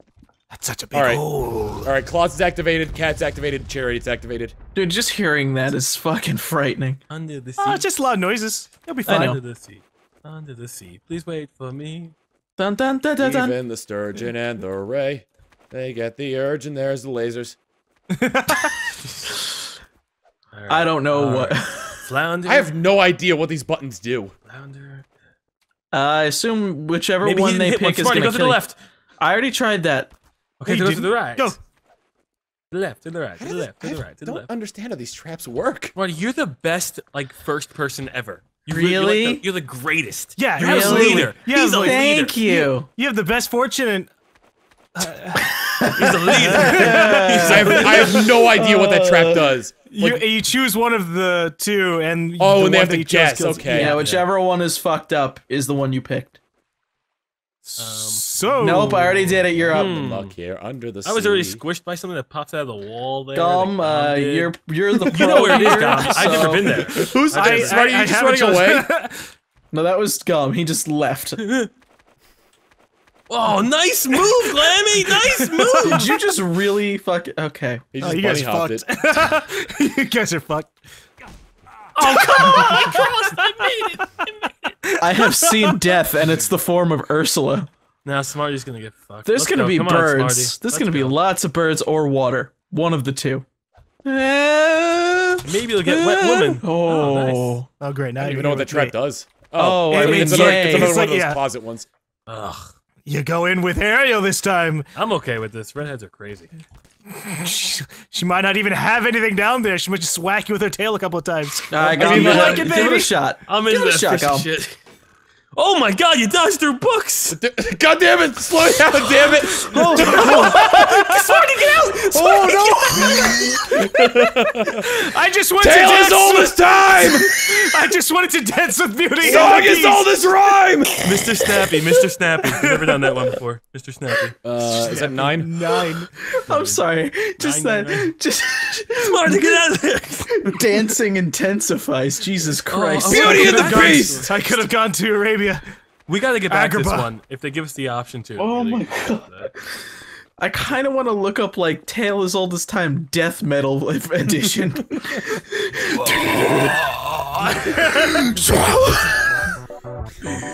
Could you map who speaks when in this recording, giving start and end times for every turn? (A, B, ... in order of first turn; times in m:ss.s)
0:00.5-0:01.9 A
0:00.9-0:01.2 B
0:01.8-0:04.5 B
0:04.7-0:07.0 C
0:07.1-0:07.9 D
0:07.6-0:09.4 A
0:09.0-0:09.4 C
0:09.1-0:12.1 D
0:12.6-0:13.6 C
0:13.2-0:17.6 B
0:18.1-0:18.9 A
0:20.5-0:22.7 D
0:20.7-0:22.1 C
0:22.4-0:24.3 B
0:24.5-0:25.1 D
0:25.9-0:28.6 C
0:27.2-0:28.8 D
0:29.2-0:30.1 C
0:30.6-0:31.6 D
0:30.6-0:31.6 A
0:32.7-0:34.5 D
0:33.4-0:35.9 B
0:35.9-0:42.4 D
0:38.7-0:39.4 C
0:40.4-0:44.1 A
0:40.6-0:42.9 C
0:45.0-0:45.5 A
0:45.4-0:49.6 C
0:45.9-0:48.1 D
0:46.3-0:47.8 A
0:47.4-0:50.2 B
0:49.9-0:53.9 A
0:52.4-0:54.0 B
0:53.7-0:56.4 C
0:53.7-0:54.2 D
0:57.6-0:59.3 A
0:57.8-0:59.0 D
0:58.6-1:00.0 C
0:59.0-1:01.6 B
0:59.6-1:00.3 D
1:01.0-1:04.5 D
1:03.3-1:06.9 C
1:05.1-1:07.8 D
1:05.2-1:06.0 A
1:05.8-1:08.9 B
1:06.7-1:09.3 A
1:09.7-1:11.4 C
1:11.4-1:11.7 D
1:13.3-1:16.0 D
1:14.2-1:16.0 A
1:15.8-1:17.8 C
1:17.9-1:18.9 B
1:18.0-1:20.8 A
1:22.0-1:24.8 D
1:22.0-1:24.0 A
1:24.9-1:25.9 A
1:25.0-1:27.7 C
1:28.0-1:31.2 D
1:29.2-1:33.4 C
1:34.0-1:37.7 C
1:35.4-1:37.6 D
1:37.8-1:38.9 A
1:38.2-1:41.9 B
1:39.5-1:41.0 C
1:39.9-1:41.4 A
1:42.3-1:42.7 D
1:43.0-1:44.9 A
1:44.9-1:46.5 D
1:47.1-1:53.1 A
1:51.7-1:54.5 C
1:52.0-1:52.8 B
1:52.0-1:54.7 D
1:55.5-1:57.4 D
1:57.3-2:00.6 B
1:59.5-2:03.6 A
1:59.8-2:03.9 C
2:00.0-2:01.7 D
2:03.0-2:05.0 B
2:04.7-2:10.1 A
2:05.6-2:07.7 B
2:09.2-2:11.0 B
2:11.0-2:14.4 D
2:12.6-2:13.0 A
2:14.4-2:15.5 B
2:14.7-2:16.1 A
2:15.6-2:19.6 C
2:16.5-2:16.8 D
2:17.4-2:18.1 D
2:18.9-2:20.6 D
2:20.3-2:23.7 C
2:22.7-2:24.4 D
2:23.1-2:24.3 B
2:23.1-2:25.6 A
2:26.1-2:29.5 D
2:26.5-2:27.1 A
2:28.4-2:29.8 C
2:30.4-2:36.9 C
2:35.9-2:38.0 D
2:37.6-2:38.2 A
2:37.8-2:39.5 C
2:38.2-2:39.0 B